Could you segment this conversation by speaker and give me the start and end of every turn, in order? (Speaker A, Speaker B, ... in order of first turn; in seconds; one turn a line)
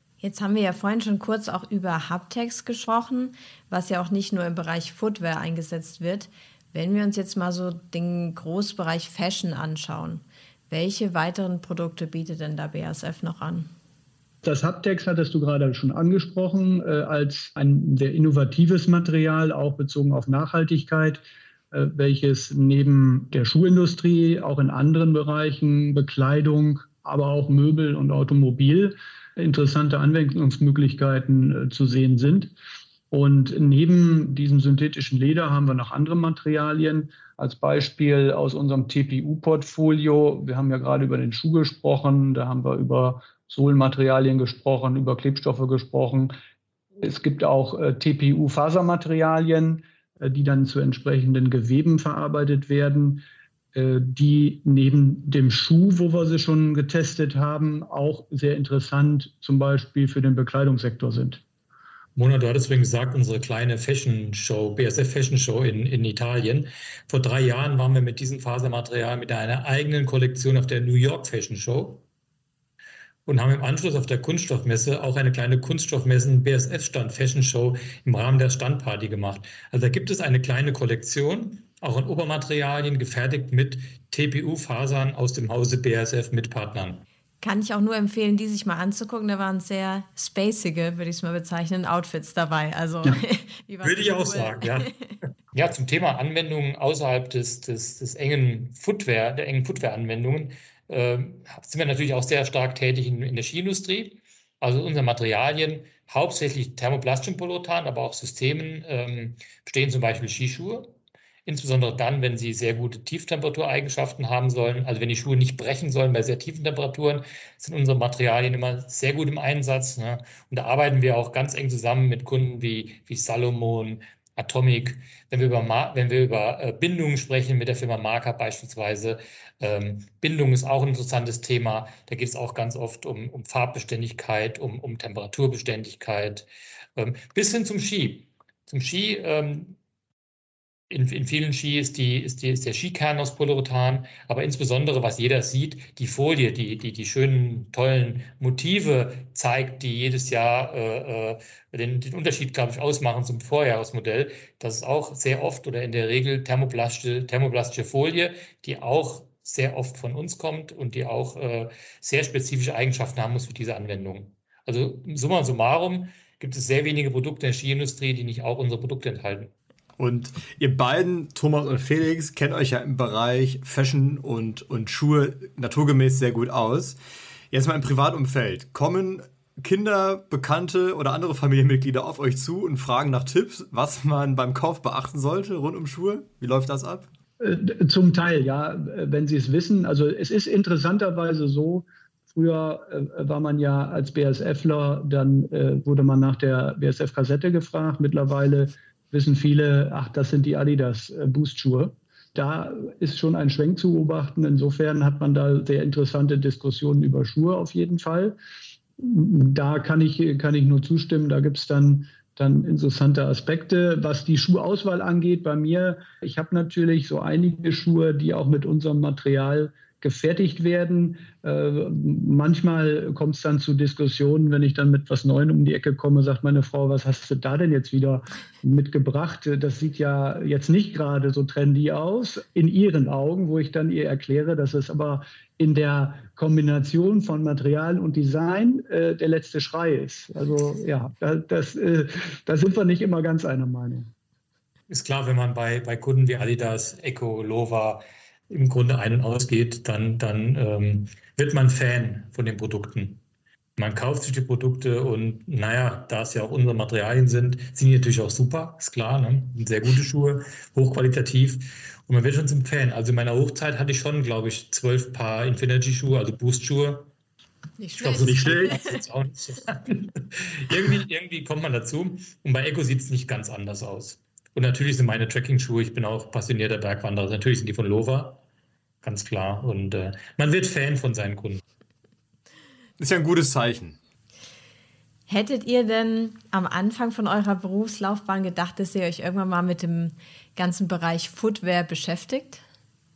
Speaker A: 0.2-13.7
Speaker B: 14.4-32.5
Speaker B: 33.1-46.3
Speaker B: 47.0-61.4
Speaker C: 62.1-72.0
Speaker C: 73.2-87.0
Speaker A: 87.4-95.1
Speaker C: 93.8-94.9
Speaker C: 95.5-110.9
Speaker C: 111.5-139.8
Speaker C: 140.9-169.5
Speaker D: 170.0-177.0
Speaker D: 177.5-187.1
Speaker B: 187.4-208.3
Speaker B: 209.0-244.1
Speaker C: 244.9-253.2
Speaker C: 253.8-267.1
Speaker A: 267.8-269.0
Speaker C: 268.0-278.4
Speaker C: 279.0-281.6
Speaker D: 283.0-284.0
Speaker A: 285.3-292.6